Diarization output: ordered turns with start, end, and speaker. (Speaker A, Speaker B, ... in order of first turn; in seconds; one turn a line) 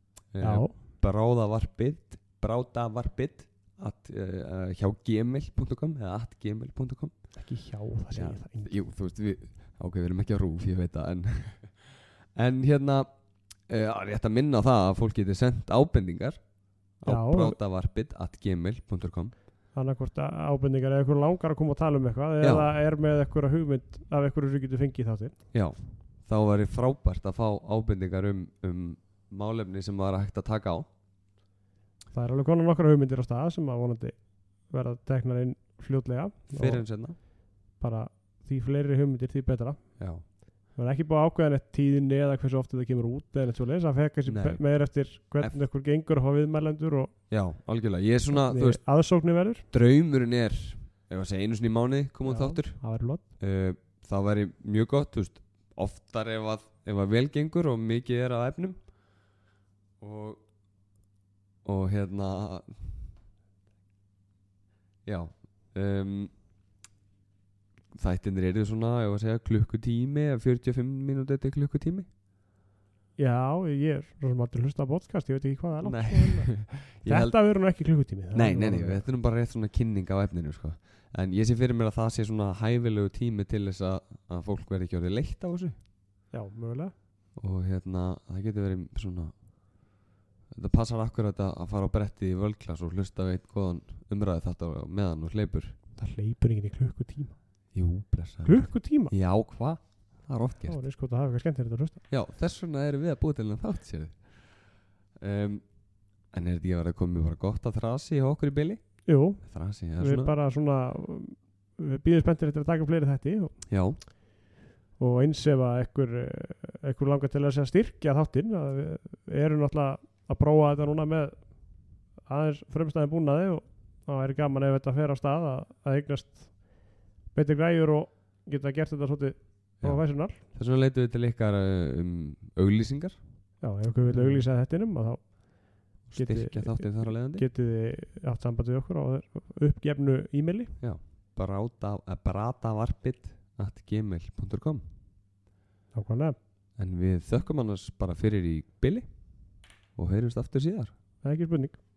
Speaker A: 0.3-7.1
Speaker B: 0.4-0.7
Speaker B: 7.4-8.7
Speaker A: 8.1-13.1
Speaker A: 13.7-16.4
Speaker A: 17.0-19.3
Speaker B: 17.0-17.6
Speaker B: 19.7-25.4
Speaker A: 22.4-22.7
Speaker A: 25.5-30.9
Speaker B: 32.1-34.2
Speaker B: 34.7-36.9
Speaker A: 36.5-37.1
Speaker B: 37.8-39.8
Speaker B: 40.7-47.1
Speaker A: 44.2-44.6
Speaker A: 47.3-48.8
Speaker B: 48.3-49.6
Speaker A: 49.7-52.8
Speaker B: 52.2-53.2
Speaker A: 53.4-58.8
Speaker A: 60.0-60.4
Speaker A: 61.6-62.9
Speaker A: 65.0-66.3
Speaker A: 67.9-72.1
Speaker B: 73.2-76.5
Speaker A: 75.8-77.4
Speaker B: 77.0-79.1
Speaker A: 78.3-85.7
Speaker B: 86.3-86.9
Speaker A: 87.4-89.3
Speaker A: 90.5-95.8
Speaker B: 96.0-97.3
Speaker A: 97.7-100.8
Speaker B: 98.4-99.1
Speaker B: 100.6-102.0
Speaker A: 102.1-104.2
Speaker A: 105.2-105.6
Speaker A: 106.3-108.8
Speaker B: 109.0-113.6
Speaker A: 109.4-110.3
Speaker A: 113.7-114.0
Speaker B: 115.0-121.5
Speaker B: 122.2-126.8
Speaker B: 127.3-130.4
Speaker A: 130.5-133.2
Speaker B: 133.6-140.7
Speaker A: 134.1-134.4
Speaker A: 136.1-137.4
Speaker A: 140.8-144.8
Speaker B: 145.9-146.3
Speaker A: 146.8-149.1
Speaker A: 149.9-150.9
Speaker B: 151.2-151.8